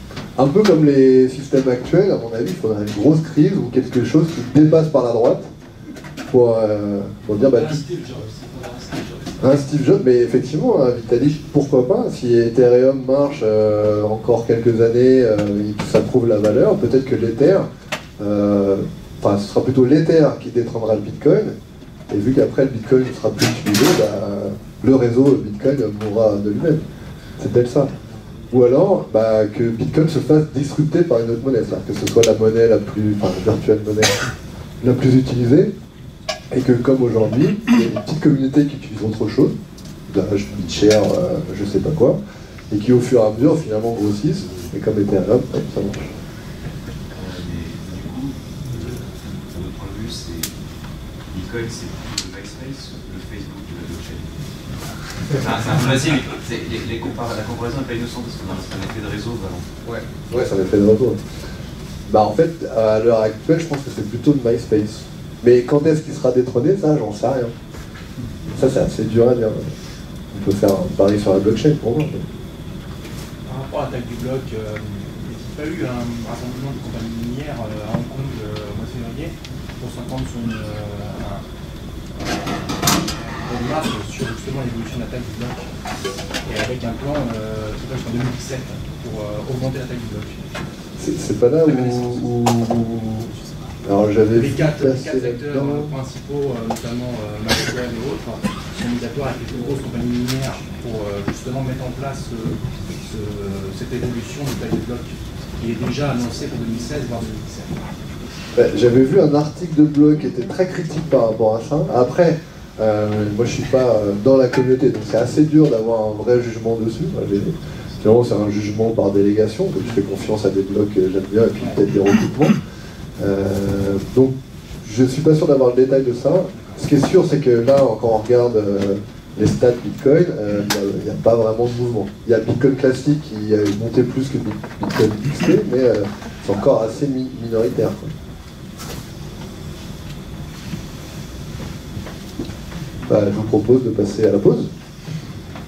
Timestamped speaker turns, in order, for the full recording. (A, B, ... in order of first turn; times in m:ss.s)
0:00.4-0:05.5 A
0:06.3-0:07.8 A
0:07.3-0:09.4 B
0:09.4-0:17.7 A
0:18.2-0:21.6 A
0:22.1-0:26.8 A
0:27.4-0:27.9 A
0:28.5-0:34.2 A
0:34.8-0:35.7 A
0:36.5-0:39.6 A
0:40.1-0:42.2 A
0:42.7-0:46.1 A
0:47.1-0:50.6 C
0:51.3-0:54.6 C
0:55.2-0:59.7 C
0:59.8-1:01.2 A
1:02.1-1:07.5 A
1:08.5-1:09.7 A
1:10.3-1:12.2 A
1:13.5-1:21.4 D
1:22.2-1:25.7 D
1:26.4-1:30.6 D
1:31.0-1:33.3 A
1:31.7-1:32.2 D
1:33.8-1:35.9 A
1:34.3-1:47.9 D
1:48.5-2:02.6 A
2:03.2-2:18.1 A
2:23.1-2:24.7 A